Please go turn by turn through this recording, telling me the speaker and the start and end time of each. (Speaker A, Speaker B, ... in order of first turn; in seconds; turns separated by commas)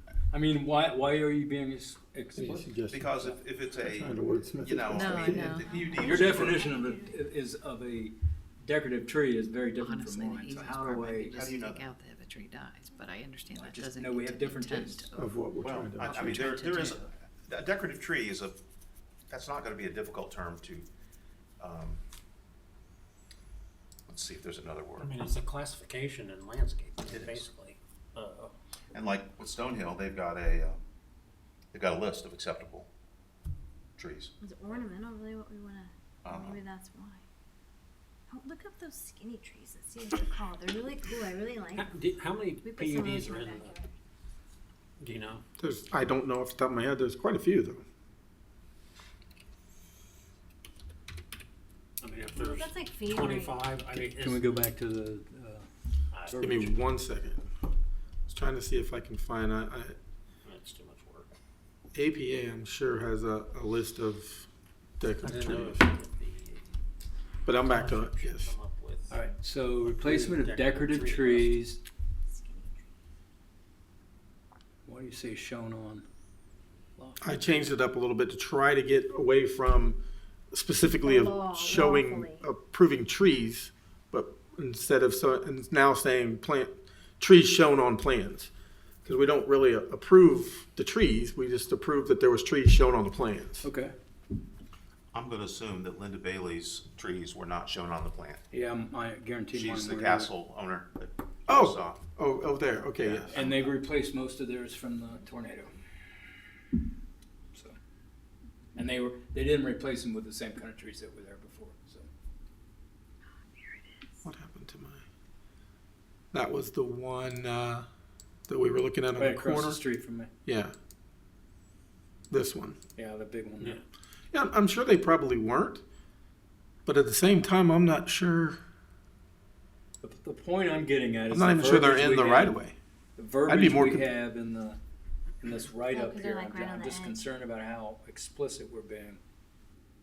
Speaker A: 0.3-3.4, Speaker B: 2.3-3.1, Speaker C: 2.9-6.7, Speaker B: 3.8-5.6, Speaker D: 5.0-5.7, Speaker E: 5.6-7.2, Speaker A: 6.0-11.3, Speaker D: 9.8-15.3, Speaker C: 11.3-11.9, Speaker A: 13.5-15.2, Speaker B: 15.1-16.3, Speaker C: 15.6-18.6, Speaker D: 16.0-17.0, Speaker C: 19.3-20.9, Speaker C: 21.6-22.0, Speaker C: 24.1-25.2, Speaker F: 25.0-28.5, Speaker C: 27.0-27.5, Speaker C: 28.9-30.8, Speaker C: 31.7-32.9, Speaker C: 34.0-34.3, Speaker E: 34.4-37.2, Speaker C: 36.2-36.6, Speaker E: 38.3-41.9, Speaker F: 41.7-43.8, Speaker E: 42.6-43.9, Speaker F: 45.0-45.4, Speaker B: 45.6-47.8, Speaker F: 52.0-54.6, Speaker E: 52.3-53.7, Speaker A: 54.1-55.7, Speaker F: 56.1-56.7, Speaker A: 56.2-56.7, Speaker B: 56.4-57.5, Speaker B: 58.3-60.0, Speaker F: 60.4-61.3, Speaker B: 61.9-64.5, Speaker B: 65.0-65.8, Speaker F: 65.2-66.8, Speaker B: 67.5-68.5, Speaker F: 67.6-69.2, Speaker A: 69.1-71.8, Speaker F: 69.8-71.6, Speaker E: 72.3-72.9, Speaker A: 74.8-76.0, Speaker A: 77.0-77.5, Speaker B: 77.2-80.0, Speaker B: 80.5-88.5, Speaker E: 80.9-82.4, Speaker B: 89.0-93.7, Speaker A: 93.6-93.9, Speaker C: 95.1-98.4, Speaker A: 98.5-100.3, Speaker C: 99.5-102.0, Speaker B: 101.5-103.4, Speaker C: 103.0-103.7, Speaker A: 103.3-105.7, Speaker A: 108.7-112.1, Speaker B: 114.2-115.0, Speaker B: 116.3-117.8, Speaker B: 118.5-119.8, Speaker A: 119.2-120.3, Speaker B: 120.5-120.7, Speaker B: 122.3-122.8, Speaker A: 123.0-123.8, Speaker B: 124.3-125.8, Speaker B: 126.8-128.6, Speaker A: 130.0-132.6, Speaker B: 131.3-132.7, Speaker A: 133.2-134.8, Speaker B: 133.4-134.1, Speaker A: 135.4-139.2, Speaker E: 135.8-137.2